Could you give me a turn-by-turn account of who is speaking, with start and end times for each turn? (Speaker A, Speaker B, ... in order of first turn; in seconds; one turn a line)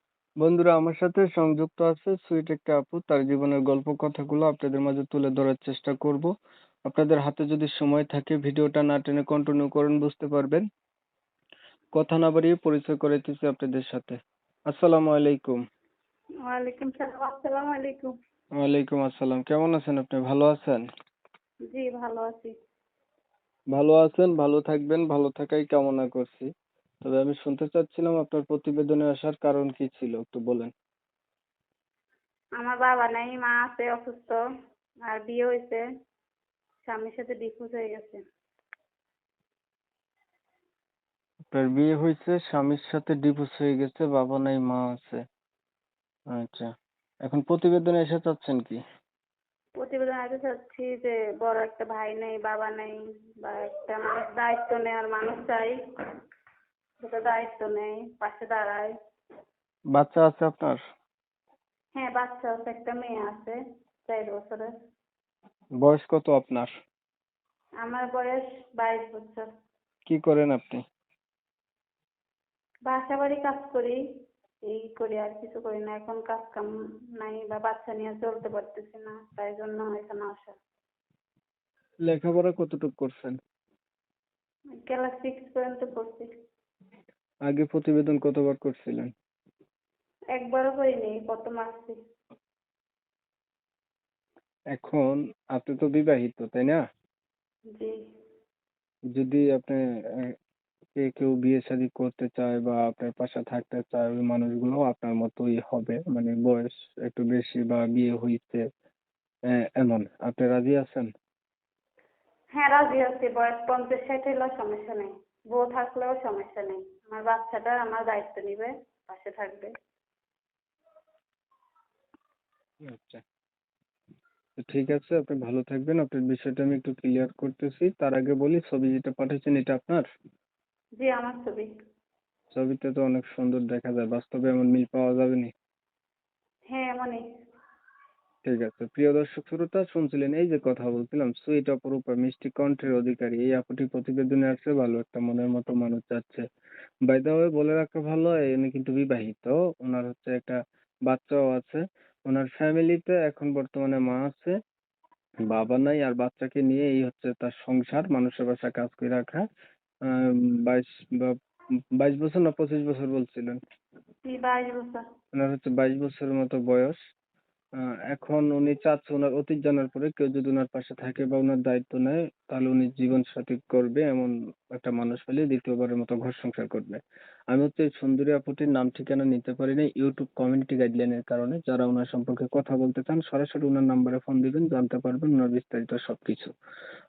Speaker A: 0.4-6.3
Speaker A: 6.8-10.6
Speaker A: 11.9-14.2
Speaker A: 14.7-15.6
Speaker B: 16.4-18.1
Speaker A: 18.6-20.8
Speaker B: 21.7-22.5
Speaker A: 23.7-26.5
Speaker A: 27.0-30.7
Speaker B: 32.6-34.4
Speaker B: 35.1-35.8
Speaker B: 36.9-38.2
Speaker A: 41.5-45.2
Speaker A: 46.3-46.7
Speaker A: 47.2-48.8
Speaker B: 49.8-55.8
Speaker B: 57.0-58.9
Speaker A: 59.9-60.8
Speaker B: 62.0-64.7
Speaker A: 65.8-66.7
Speaker B: 67.8-69.5
Speaker A: 70.1-70.8
Speaker B: 72.9-74.0
Speaker B: 74.7-80.5
Speaker A: 82.0-83.4
Speaker B: 84.8-86.3
Speaker A: 87.5-89.1
Speaker B: 90.3-92.0
Speaker A: 94.7-96.8
Speaker A: 99.1-100.3
Speaker A: 101.0-108.7
Speaker A: 109.5-111.1
Speaker B: 112.5-119.7
Speaker A: 122.8-123.2
Speaker A: 124.6-130.0
Speaker B: 131.0-131.7
Speaker A: 132.5-135.5
Speaker B: 136.7-137.2
Speaker A: 138.4-146.4
Speaker A: 147.1-154.6
Speaker A: 155.5-159.4
Speaker A: 160.1-161.3
Speaker A: 161.9-163.6
Speaker B: 164.2-165.0
Speaker A: 165.3-167.0
Speaker A: 167.8-186.5